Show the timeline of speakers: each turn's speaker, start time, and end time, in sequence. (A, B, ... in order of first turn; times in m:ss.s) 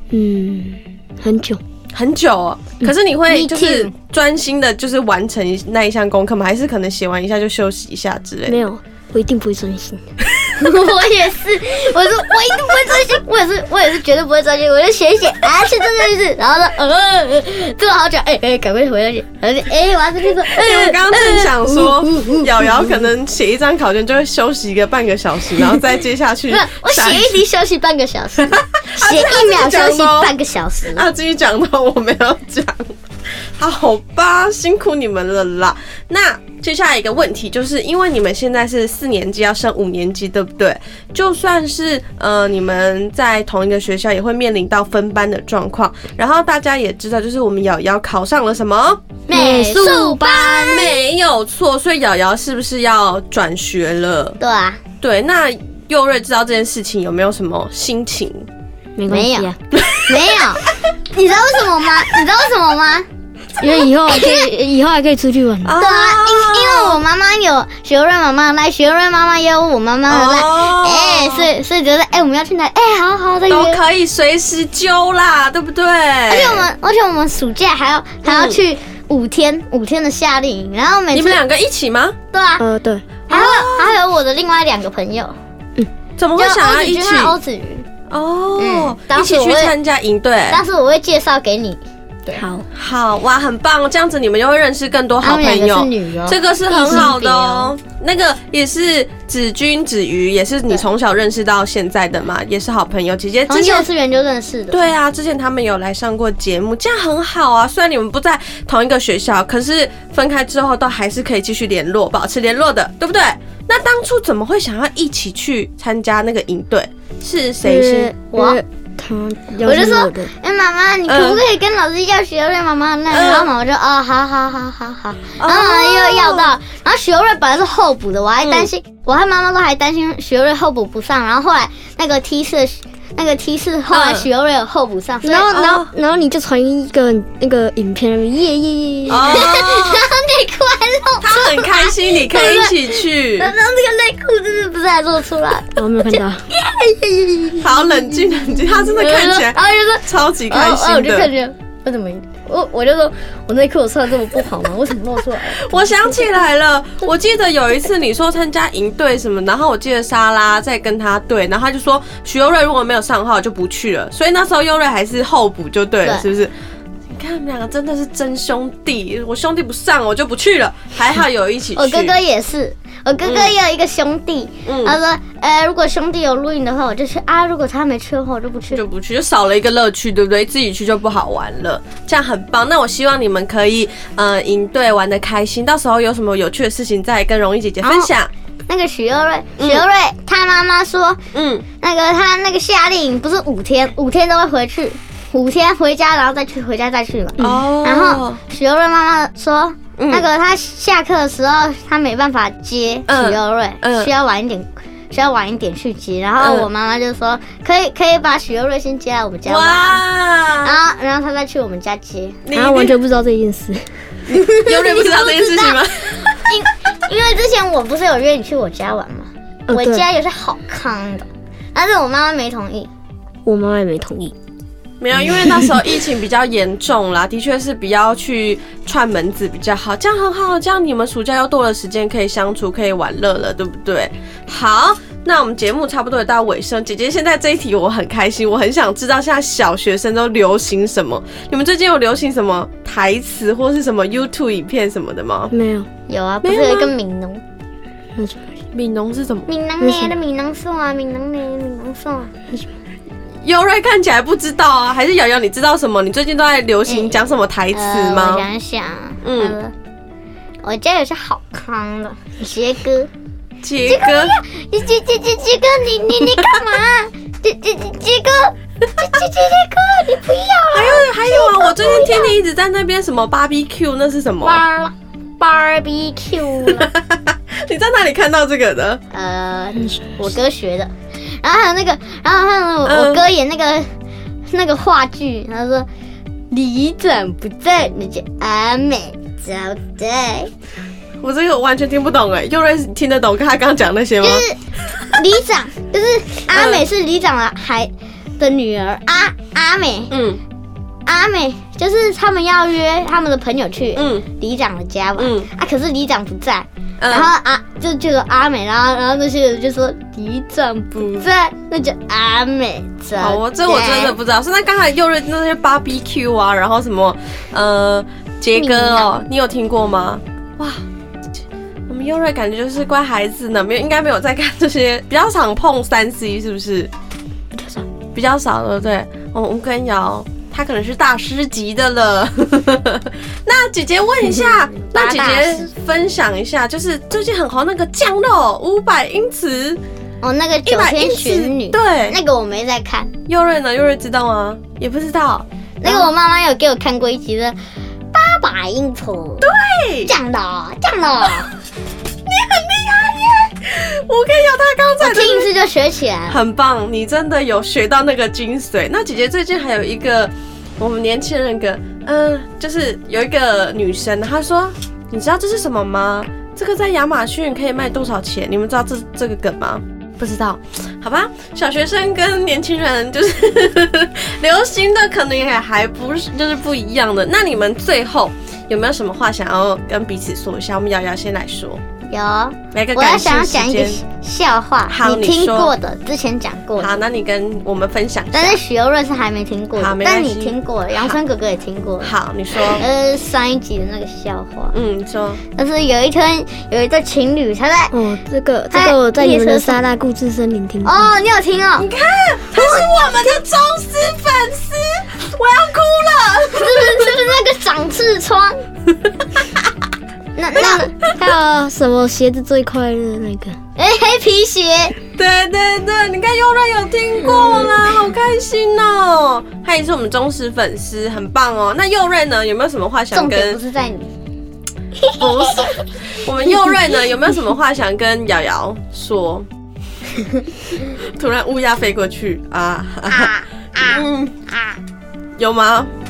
0:00.1-0:01.6 A
0:01.9-0:08.6 B
0:03.3-0:03.9 C
0:08.5-0:10.0 A
0:10.6-0:22.4 C
0:20.5-0:27.4 B
0:26.5-0:31.0 C
0:28.7-0:30.3 B
0:30.9-0:33.0 B
0:33.6-0:49.0 B
0:49.3-0:50.9 C
0:49.3-0:50.9 A
0:50.4-0:54.4 B
0:54.4-0:54.8 C
0:55.0-0:58.5 B
0:59.0-0:59.6 A
0:59.1-1:03.1 C
0:59.7-1:00.2 B
1:03.6-1:05.8 A
1:03.6-1:04.4 C
1:05.6-1:07.0 B
1:05.8-1:13.8 C
1:10.1-1:11.5 B
1:13.5-1:16.7 B
1:16.3-1:21.4 C
1:18.2-1:18.6 B
1:21.1-1:22.2 B
1:22.3-1:22.6 C
1:22.6-1:23.1 A
1:23.3-1:24.0 B
1:23.3-1:25.4 C
1:26.2-1:27.4 B
1:26.4-1:27.9 C
1:28.1-1:30.6 B
1:28.6-1:29.7 C
1:30.5-1:32.4 C
1:32.4-1:32.6 A
1:32.7-1:43.9 B
1:35.2-1:37.7 C
1:43.5-1:44.8 C
1:44.7-1:58.1 B
1:57.6-2:00.3 A
1:58.2-1:58.6 C
1:59.6-2:15.5 C
2:01.1-2:01.4 B
2:03.1-2:03.5 B
2:05.4-2:06.5 B
2:08.4-2:08.7 B
2:13.9-2:14.3 B
2:15.2-2:19.5 A
2:15.5-2:15.9 B
2:19.1-2:20.1 B
2:19.2-2:35.7 C
2:21.2-2:23.5 B
2:25.8-2:26.4 A
2:27.6-2:31.3 B
2:35.5-2:46.5 B
2:47.1-2:52.2 B
2:51.8-2:58.8 C
2:53.2-2:53.5 B
2:54.6-2:55.0 B
2:58.7-3:08.3 B
3:07.8-3:08.1 C
3:08.7-3:11.2 C
3:09.6-3:09.9 B
3:11.3-3:11.6 B
3:11.8-3:30.0 C
3:17.4-3:18.4 B
3:20.0-3:20.3 B
3:23.1-3:24.1 B
3:26.4-3:26.7 B
3:29.4-3:30.8 B
3:30.6-3:32.4 C
3:32.4-3:33.0 B
3:32.6-3:33.8 A
3:34.3-3:36.4 B
3:34.6-3:42.9 C
3:39.7-3:40.0 A
3:43.4-3:44.3 A
3:45.0-4:05.5 B
3:45.4-3:45.8 A
4:05.5-4:05.9 A
4:06.1-4:07.4 C
4:06.4-4:06.9 B
4:08.2-4:08.5 A
4:08.7-4:09.5 B
4:09.5-4:12.3 C
4:09.8-4:10.1 A
4:13.4-4:18.4 B
4:16.9-4:17.1 C
4:17.7-4:19.7 C
4:19.2-4:19.6 B
4:20.6-4:23.1 C
4:23.6-4:24.4 B
4:23.8-4:32.4 C
4:30.7-4:34.6 B
4:34.4-4:36.9 C
4:36.7-4:39.0 B
4:39.1-4:43.9 C
4:39.8-4:40.1 A
4:42.8-4:43.2 B
4:44.5-4:45.9 C
4:46.5-4:50.5 C
4:51.2-4:54.4 B
4:54.2-5:00.1 C
4:56.5-4:56.8 B
5:00.1-5:00.4 B
5:01.1-5:14.2 C
5:04.0-5:04.2 B
5:05.2-5:05.5 B
5:07.0-5:07.3 B
5:11.0-5:11.3 B
5:13.2-5:26.9 B
5:18.6-5:19.1 C
5:27.6-5:27.8 A
5:28.1-5:39.8 B
5:34.2-5:35.7 C
5:40.2-5:43.1 C
5:40.6-5:42.2 B
5:43.3-5:46.1 B
5:45.8-5:47.6 C
5:48.1-5:49.5 C
5:49.4-5:50.1 B
5:50.1-5:51.5 C
5:52.3-5:55.5 B
5:55.0-5:56.4 C
5:56.3-6:21.8 B
6:22.1-6:27.0 C
6:22.7-6:24.0 B
6:24.9-6:25.7 B
6:26.8-6:28.6 B
6:28.3-6:34.7 C
6:29.8-6:31.2 B
6:32.0-6:32.9 B
6:34.7-6:35.4 B
6:35.6-6:37.9 C
6:37.9-6:41.1 A
6:38.7-6:39.8 C
6:40.8-6:41.9 C
6:41.8-6:47.2 B
6:42.6-6:43.0 C
6:46.5-6:48.6 C
6:50.4-6:51.0 C
6:51.1-6:53.6 A
6:53.8-6:55.0 C
6:55.2-7:03.6 B
6:57.2-6:57.8 C
7:03.1-7:04.1 C
7:05.0-7:05.9 C
7:05.2-7:09.4 B
7:10.9-7:14.4 B
7:13.1-7:14.8 C
7:15.4-7:15.9 B